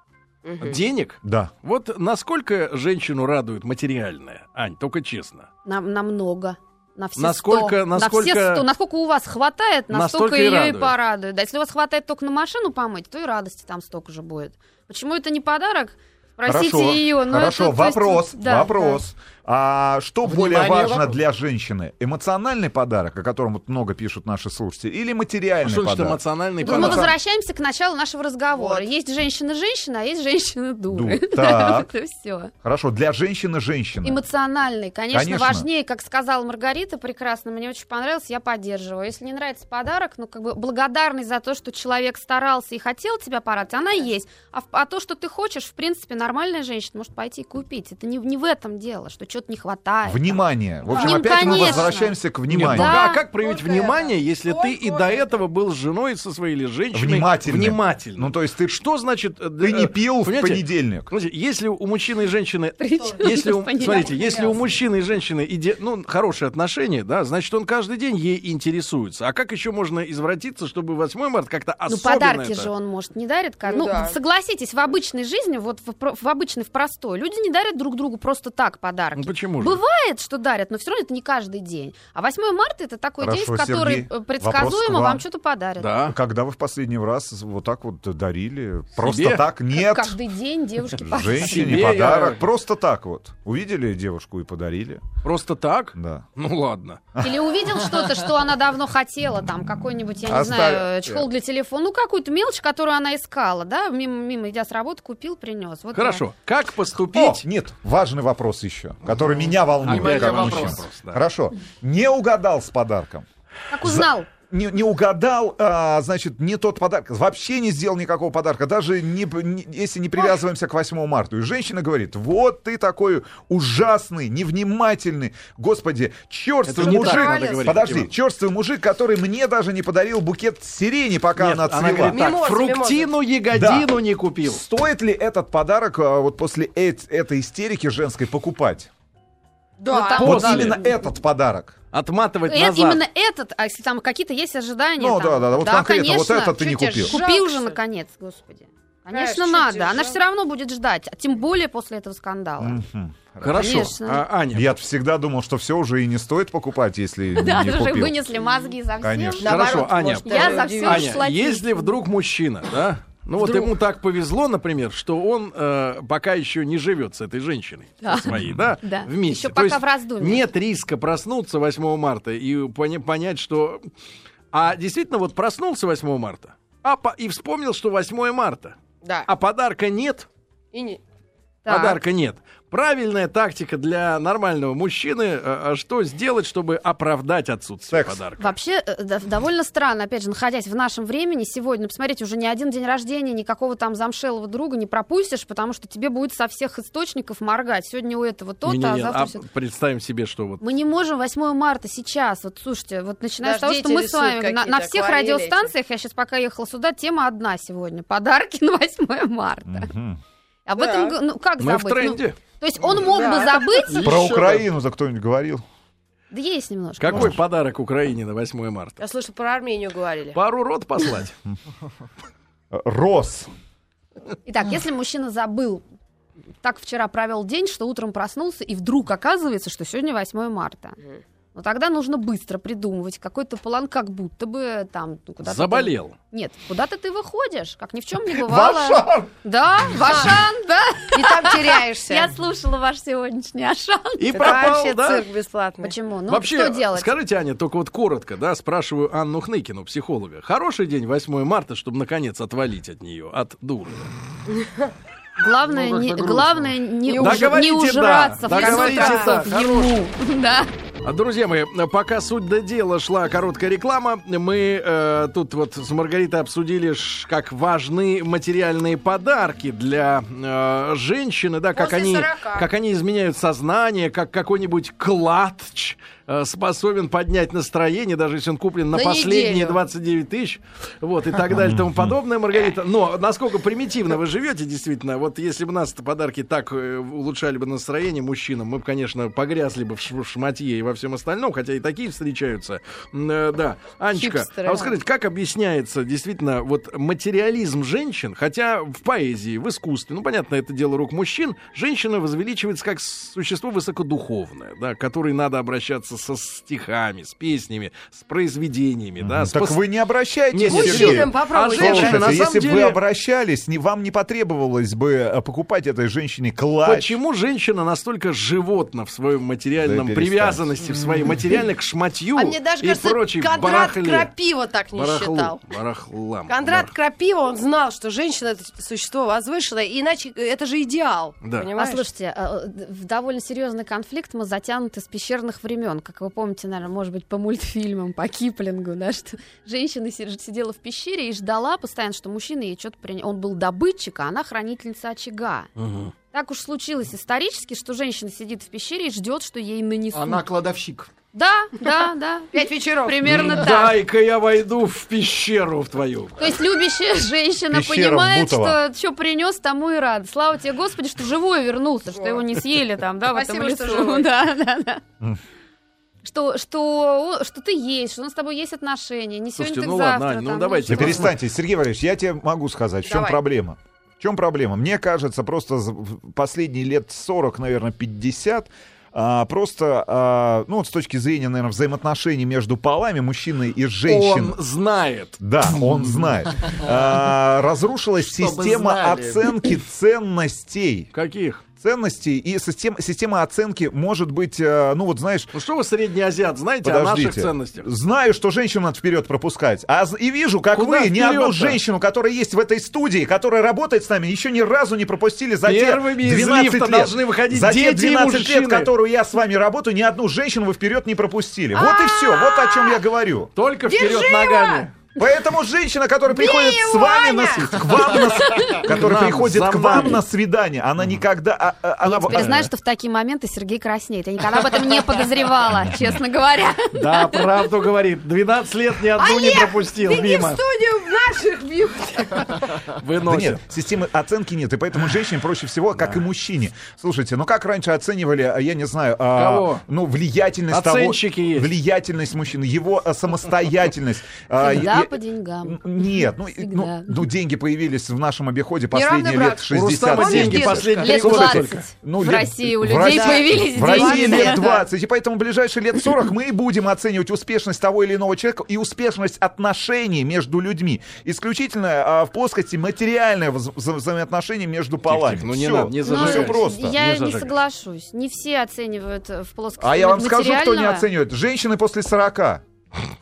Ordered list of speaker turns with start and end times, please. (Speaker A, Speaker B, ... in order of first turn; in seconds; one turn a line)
Speaker A: 0.4-0.8
Speaker B: 0.6-5.5
Speaker C: 1.2-1.5
Speaker D: 5.6-19.0
Speaker B: 7.2-8.7
Speaker B: 9.9-10.9
Speaker C: 16.4-27.1
Speaker E: 20.2-21.2
Speaker B: 25.6-27.1
Speaker D: 26.6-32.5
Speaker A: 28.5-28.9
Speaker C: 30.9-31.9
Speaker C: 32.6-34.2
Speaker D: 34.0-53.2
Speaker C: 35.1-35.7
Speaker C: 50.0-53.0
Speaker A: 50.9-52.0
Speaker B: 52.5-72.7
Speaker A: 53.0-55.4
Speaker C: 56.9-58.8
Speaker C: 59.6-61.1
Speaker D: 62.8-64.6
Speaker A: 63.0-64.8
Speaker D: 71.9-86.0
Speaker A: 73.6-74.2
Speaker B: 79.1-79.8
Speaker C: 83.2-85.2
Speaker B: 85.8-86.2
Speaker C: 86.1-90.2
Speaker B: 88.9-89.4
Speaker D: 89.7-91.9
Speaker C: 90.9-95.0
Speaker B: 91.4-92.4
Speaker B: 95.2-97.0
Speaker C: 95.9-96.2
Speaker D: 97.2-106.2
Speaker C: 100.2-101.3
Speaker B: 105.9-107.4
Speaker C: 107.1-113.2
Speaker B: 109.8-111.2
Speaker E: 109.8-110.8
Speaker D: 113.7-114.3
Speaker C: 113.8-132.2
Speaker B: 126.7-128.1
Speaker A: 126.8-127.7
Speaker B: 131.4-134.6
Speaker A: 132.1-133.1
Speaker C: 133.5-133.9
Speaker C: 134.4-138.9
Speaker A: 139.8-140.4
Speaker D: 139.9-140.9
Speaker B: 140.2-140.8
Speaker C: 140.2-141.8
Speaker B: 141.9-143.0
Speaker D: 142.5-152.8
Speaker C: 145.0-147.2
Speaker A: 146.5-147.8
Speaker A: 149.1-150.2
Speaker C: 152.6-153.9
Speaker B: 153.4-154.7
Speaker D: 153.5-154.2
Speaker C: 154.5-158.2
Speaker D: 157.4-162.0
Speaker C: 159.0-159.6
Speaker A: 159.4-161.2
Speaker B: 159.4-173.8
Speaker A: 163.4-163.7
Speaker D: 168.0-170.4
Speaker C: 168.3-168.6
Speaker B: 174.5-180.3
Speaker A: 179.0-179.3
Speaker A: 180.7-181.0
Speaker D: 181.6-182.0
Speaker B: 181.7-188.5
Speaker C: 187.9-188.2
Speaker D: 188.4-199.4
Speaker B: 198.6-200.6
Speaker D: 200.6-209.9
Speaker A: 203.4-205.7
Speaker C: 209.7-210.2
Speaker D: 210.7-214.1
Speaker A: 210.8-211.2
Speaker B: 211.6-212.4
Speaker A: 212.9-213.6
Speaker E: 213.8-214.7
Speaker C: 214.0-215.6
Speaker D: 216.3-217.3
Speaker B: 217.0-219.0
Speaker A: 219.0-220.4
Speaker B: 220.3-221.3
Speaker C: 222.7-223.5
Speaker D: 224.4-225.8
Speaker D: 226.6-231.0
Speaker D: 231.5-244.8
Speaker B: 235.4-236.1
Speaker C: 238.3-239.3
Speaker A: 239.9-240.4
Speaker A: 241.1-242.3
Speaker B: 244.2-245.2
Speaker A: 244.3-245.9
Speaker D: 245.8-247.1
Speaker B: 246.3-254.1
Speaker A: 254.5-254.8
Speaker D: 255.4-260.7
Speaker A: 255.7-256.4
Speaker A: 257.0-257.6
Speaker B: 257.1-260.0
Speaker A: 258.4-259.4
Speaker B: 261.0-309.8
Speaker A: 271.7-272.7
Speaker A: 278.9-279.8
Speaker C: 281.5-282.1
Speaker A: 294.1-295.0
Speaker C: 309.2-317.2
Speaker B: 310.5-313.0
Speaker A: 310.6-312.5
Speaker B: 316.8-324.3
Speaker C: 319.8-320.8
Speaker A: 322.4-325.6
Speaker B: 324.9-326.9
Speaker A: 326.5-332.1
Speaker B: 331.4-331.7
Speaker D: 331.8-345.7
Speaker B: 345.8-346.1
Speaker D: 346.3-350.4
Speaker E: 350.1-351.1
Speaker D: 351.3-354.0
Speaker A: 352.5-353.4
Speaker B: 353.2-356.5
Speaker D: 356.4-365.0
Speaker C: 357.7-358.8
Speaker A: 362.1-362.4
Speaker A: 363.2-364.3
Speaker D: 366.2-371.3
Speaker B: 369.6-371.4
Speaker C: 370.9-384.6
Speaker A: 373.1-373.4
Speaker B: 384.0-386.3
Speaker C: 385.4-391.1
Speaker E: 388.2-389.6
Speaker B: 391.1-391.6
Speaker C: 391.8-395.5
Speaker B: 395.5-397.9
Speaker C: 396.8-413.5
Speaker B: 400.7-401.8
Speaker B: 405.6-408.9
Speaker A: 411.7-413.0
Speaker B: 413.5-414.9
Speaker A: 413.9-414.9
Speaker C: 415.2-422.7
Speaker A: 416.3-418.5
Speaker B: 418.8-420.2
Speaker D: 422.0-427.5
Speaker B: 422.3-422.7
Speaker B: 426.9-430.6
Speaker D: 429.2-429.8
Speaker A: 429.2-432.8
Speaker B: 432.8-433.6
Speaker C: 433.2-466.9
Speaker B: 439.3-439.8
Speaker B: 440.7-441.7
Speaker D: 444.6-447.2
Speaker A: 448.9-451.5
Speaker B: 449.7-451.9
Speaker D: 451.0-454.7
Speaker A: 452.9-454.8
Speaker B: 465.0-467.6
Speaker D: 466.1-471.1
Speaker C: 469.8-472.6